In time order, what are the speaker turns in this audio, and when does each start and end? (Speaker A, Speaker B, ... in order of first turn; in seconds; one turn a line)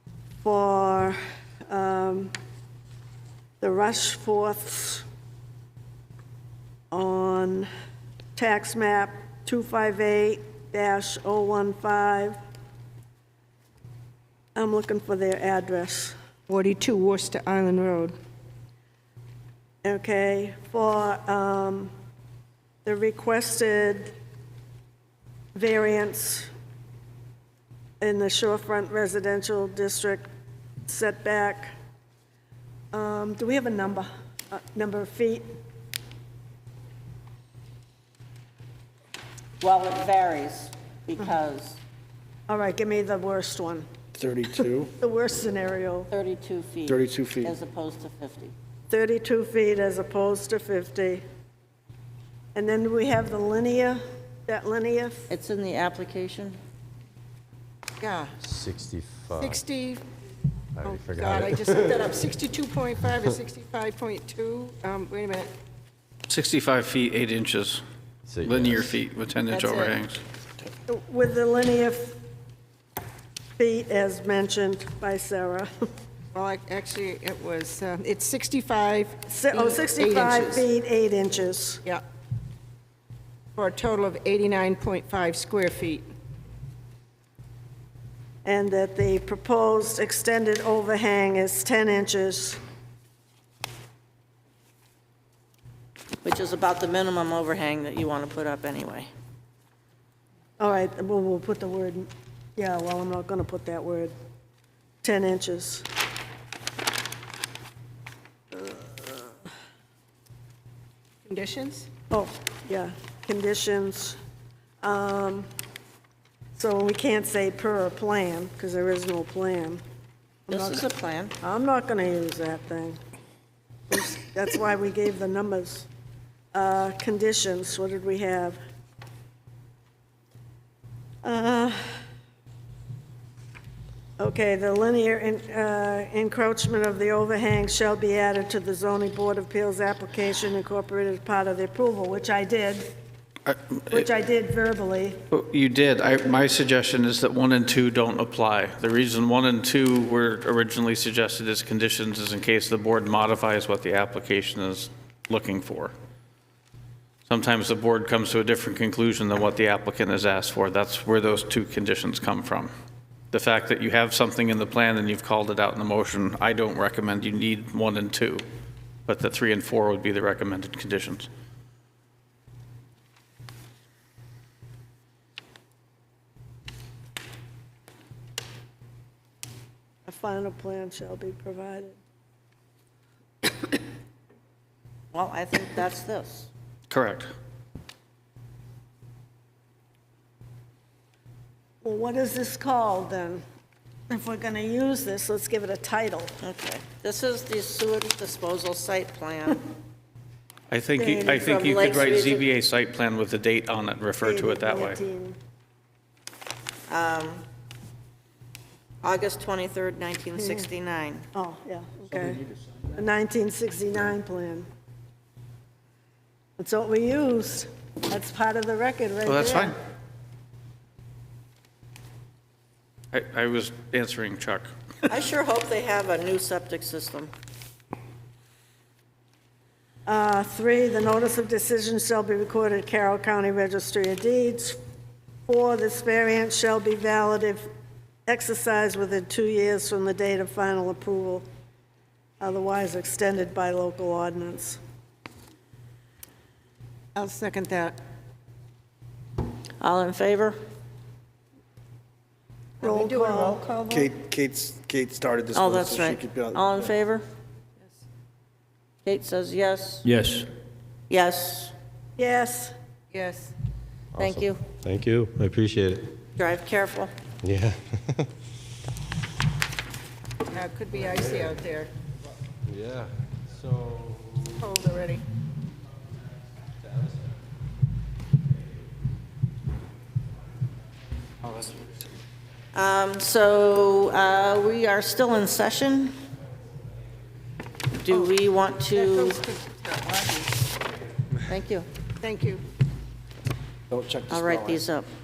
Speaker A: 0.4-1.2
Speaker A: 1.7-2.3
Speaker A: 3.6-5.0
Speaker A: 6.9-7.7
Speaker A: 8.4-12.4
Speaker A: 14.6-16.1
Speaker B: 16.5-18.1
Speaker A: 19.8-21.9
Speaker A: 22.9-24.1
Speaker A: 25.5-26.5
Speaker A: 28.0-30.3
Speaker A: 30.9-31.7
Speaker A: 32.9-35.5
Speaker C: 39.6-41.8
Speaker A: 42.5-43.9
Speaker D: 44.2-44.9
Speaker A: 45.0-46.1
Speaker C: 46.1-48.5
Speaker D: 46.9-47.5
Speaker A: 48.9-51.2
Speaker A: 52.5-55.3
Speaker C: 55.3-56.6
Speaker B: 58.0-58.4
Speaker E: 58.4-59.6
Speaker B: 59.3-60.0
Speaker E: 60.8-62.1
Speaker B: 60.8-65.5
Speaker F: 66.3-67.8
Speaker E: 68.3-68.9
Speaker F: 68.5-70.2
Speaker A: 70.9-72.2
Speaker A: 73.6-75.7
Speaker B: 76.3-80.7
Speaker A: 79.3-81.8
Speaker B: 83.6-86.1
Speaker A: 88.5-92.6
Speaker C: 96.2-99.1
Speaker A: 100.6-104.1
Speaker A: 105.0-105.9
Speaker A: 108.5-109.3
Speaker B: 111.2-111.9
Speaker A: 112.1-114.2
Speaker A: 114.8-115.5
Speaker A: 116.6-119.8
Speaker C: 120.5-121.3
Speaker A: 120.5-120.8
Speaker A: 121.4-123.0
Speaker A: 123.9-125.9
Speaker A: 126.5-128.6
Speaker A: 131.2-131.9
Speaker A: 134.2-142.9
Speaker F: 143.5-144.1
Speaker A: 143.9-145.2
Speaker F: 145.3-155.9
Speaker F: 157.3-162.7
Speaker F: 163.3-168.4
Speaker F: 169.1-171.3
Speaker A: 180.1-182.0
Speaker C: 185.1-186.5
Speaker F: 186.9-187.3
Speaker A: 191.8-193.4
Speaker A: 194.1-196.3
Speaker C: 196.4-199.6
Speaker F: 200.7-205.0
Speaker A: 201.0-201.5
Speaker C: 201.2-202.5
Speaker A: 204.2-205.4
Speaker C: 206.9-207.4
Speaker C: 209.0-211.2
Speaker A: 210.4-210.7
Speaker A: 211.3-214.7
Speaker A: 216.6-219.8
Speaker F: 219.3-219.8
Speaker F: 223.1-224.7
Speaker C: 225.1-227.3
Speaker A: 230.1-234.8
Speaker A: 235.5-237.7
Speaker A: 238.3-241.5
Speaker A: 242.4-244.8
Speaker B: 247.2-248.0
Speaker C: 249.8-250.6
Speaker B: 252.8-254.1
Speaker A: 252.8-253.7
Speaker D: 253.9-256.9
Speaker C: 255.5-257.3
Speaker C: 259.1-260.1
Speaker C: 261.1-261.7
Speaker A: 262.2-262.8
Speaker B: 263.1-263.6
Speaker E: 264.1-266.2
Speaker C: 264.2-264.6
Speaker C: 266.4-267.1
Speaker E: 267.4-268.3
Speaker B: 270.5-271.9
Speaker E: 272.7-274.6
Speaker B: 274.6-275.2
Speaker C: 282.7-286.1
Speaker C: 288.0-289.4
Speaker B: 288.1-288.4
Speaker B: 288.9-290.7
Speaker C: 291.5-291.9
Speaker B: 292.2-292.6
Speaker D: 293.9-294.8
Speaker C: 294.3-295.1